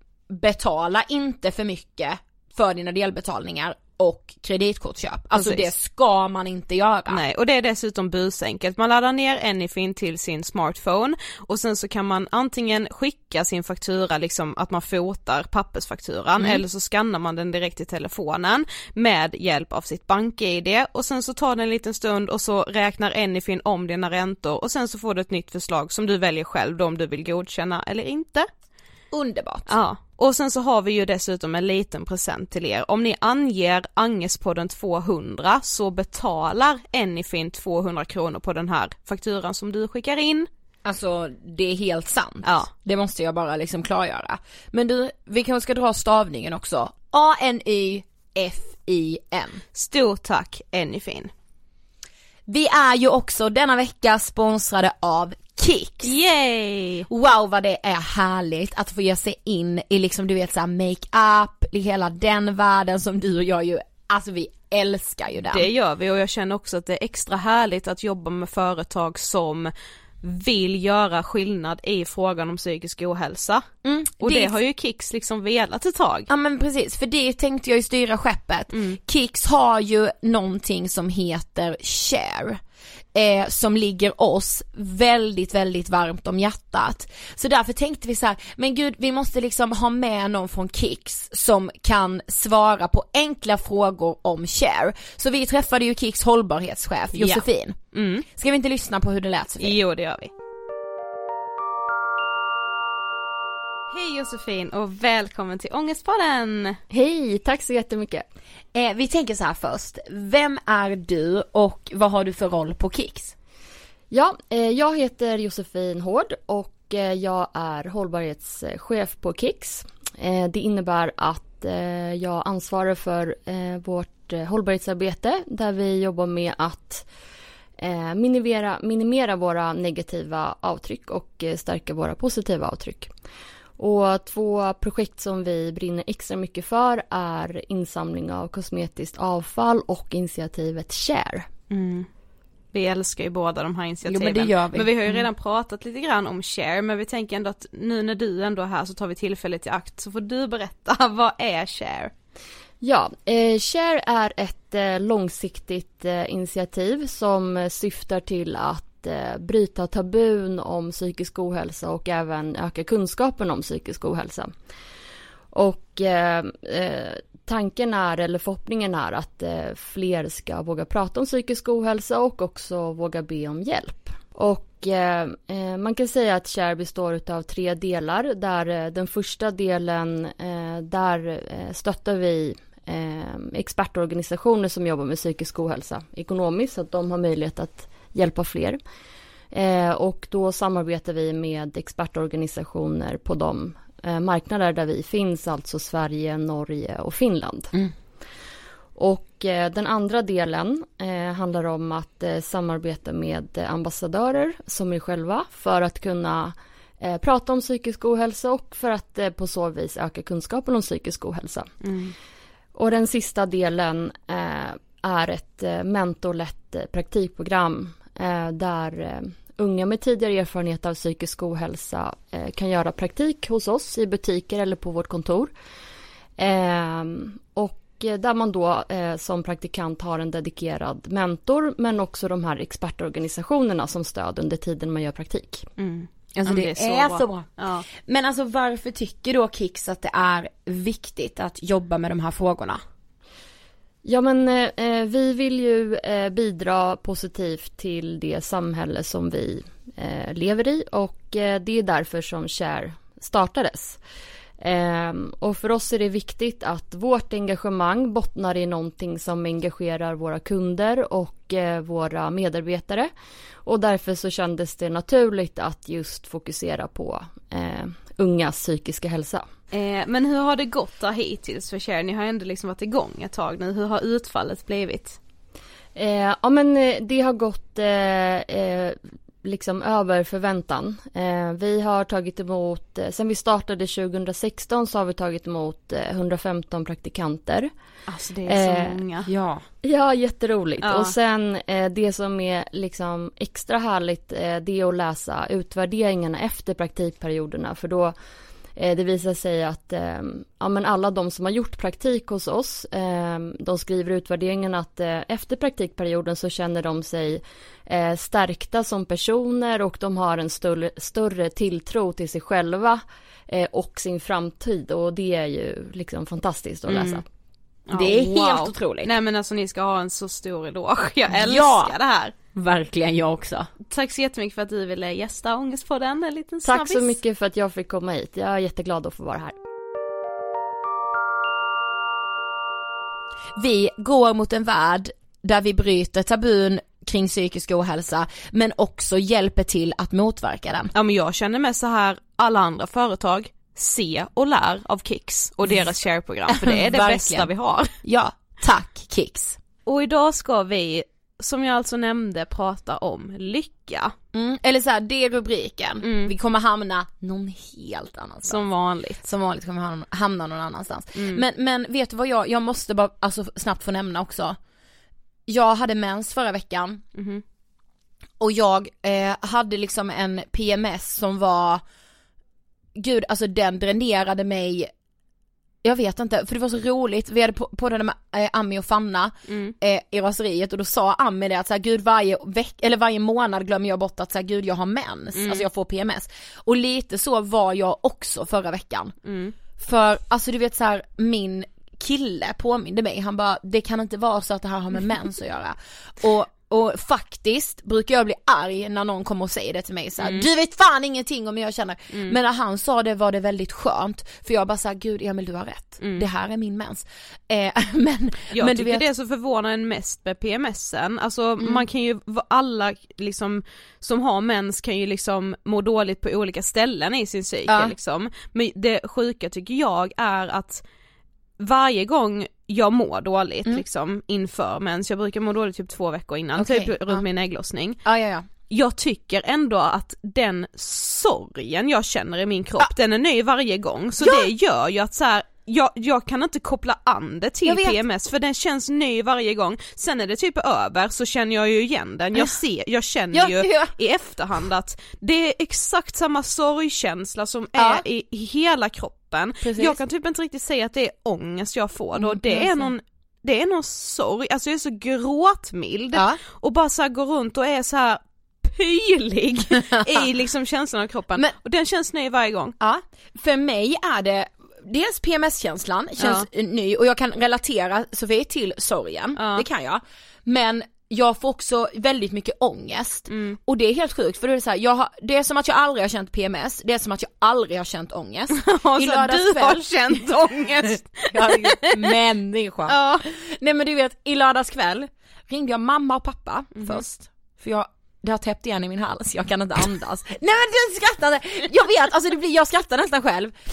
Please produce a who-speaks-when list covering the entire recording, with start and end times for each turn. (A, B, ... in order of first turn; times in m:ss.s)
0:00.3-0:07.2 A
0:05.3-0:05.7 B
0:07.1-0:28.5 B
0:16.4-0:16.6 A
0:29.1-0:29.7 A
0:29.7-0:40.5 B
0:40.8-0:49.6 A
0:49.7-0:51.3 B
0:52.5-0:56.1 A
0:56.0-0:57.1 B
0:57.1-1:05.7 A
1:05.4-1:13.7 B
1:13.8-1:14.6 A
1:14.2-1:16.3 B
1:16.3-1:22.6 A
1:18.7-1:19.0 B
1:23.1-1:37.8 A
1:37.1-1:38.2 B
1:38.4-1:39.8 A
1:39.6-1:40.3 B
1:43.9-1:46.8 B
1:46.9-1:48.2 C
1:48.7-1:53.3 A
1:54.1-2:07.0 C
2:07.8-2:13.1 C
2:13.8-2:21.5 C
2:21.7-2:22.1 B
2:22.7-2:32.1 B
2:24.0-2:25.2 A
2:32.8-2:44.5 C
2:45.5-3:08.8 C
3:09.5-3:17.7 C
3:19.0-3:31.7 C
3:31.8-3:32.1 B
3:32.7-3:45.5 C
3:46.4-3:55.7 C
3:55.8-3:57.8 B
3:56.3-4:02.8 A
4:04.0-4:14.0 C
4:14.6-4:23.1 C
4:23.6-4:29.5 C
4:29.7-4:35.2 B
4:36.0-4:47.7 C
4:48.1-4:49.3 B
4:48.5-4:49.0 C
4:49.3-4:49.6 A
4:49.8-4:58.2 C
4:50.8-4:51.1 B
4:58.7-5:17.2 C
5:16.9-5:17.2 B
5:17.9-5:22.3 B
5:17.9-5:19.1 A
5:21.3-5:21.9 A
5:22.5-5:23.7 A
5:23.9-5:27.2 B
5:26.6-5:29.6 C
5:33.6-5:40.9 A
5:40.9-5:47.9 B
5:46.5-5:47.5 A
5:48.0-5:49.6 A
5:49.8-5:54.1 B
5:54.3-5:58.6 A
5:56.0-5:56.3 B
5:58.4-5:59.2 B
5:59.2-6:04.6 A
6:01.1-6:01.4 B
6:05.5-6:07.0 A
6:07.1-6:07.4 B
6:08.4-6:11.8 A
6:13.0-6:14.9 A
6:15.8-6:29.1 A
6:19.5-6:19.7 B
6:25.4-6:25.6 B
6:29.2-6:29.5 B
6:29.8-6:49.0 A
6:40.2-6:40.5 B
6:48.5-7:00.8 B
6:57.7-6:57.9 A
7:01.6-7:08.0 B
7:06.6-7:07.2 A
7:08.0-7:08.5 A
7:08.7-7:42.7 B
7:14.2-7:14.5 A
7:17.6-7:18.0 A
7:23.3-7:23.9 A
7:27.8-7:28.0 A
7:29.6-7:30.0 A
7:32.2-7:32.9 A
7:39.9-7:40.2 A
7:42.8-7:59.9 A
7:46.2-7:46.5 B
7:49.4-7:49.6 B
7:53.3-7:53.6 B
7:58.6-8:02.1 B
8:01.3-8:13.6 A
8:02.9-8:03.2 B